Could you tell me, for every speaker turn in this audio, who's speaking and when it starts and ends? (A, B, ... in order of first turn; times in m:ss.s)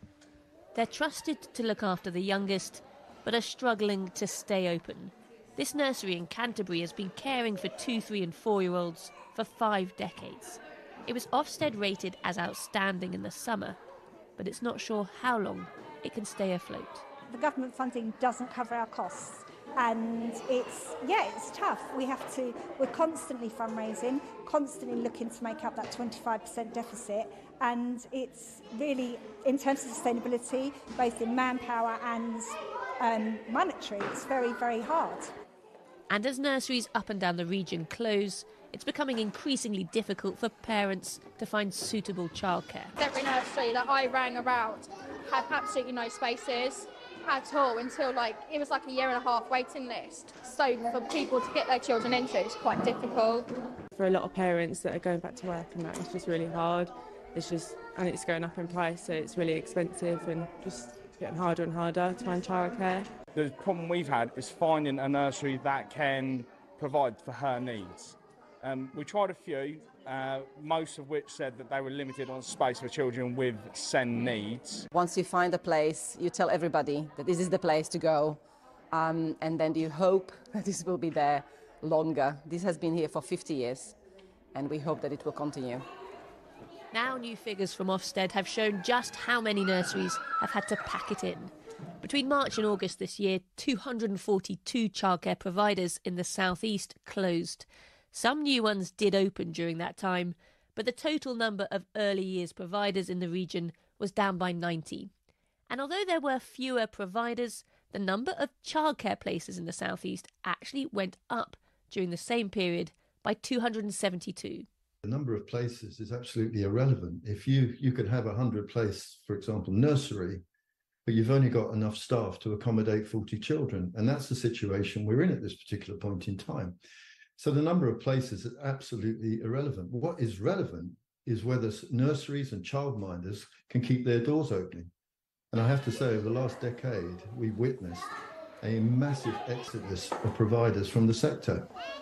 0:00.7-0:13.8 A
0:14.4-0:17.0 A
0:17.3-0:35.3 B
0:36.1-0:42.9 A
0:43.0-0:53.5 C
0:54.0-1:03.1 D
1:03.3-1:14.8 E
1:14.9-1:18.4 F
1:18.9-1:23.9 F
1:24.5-1:25.8 F
1:26.9-1:45.1 A
1:45.7-1:54.6 A
1:55.0-2:00.4 G
2:01.0-2:06.8 G
2:07.4-2:14.9 G
2:15.5-2:21.7 G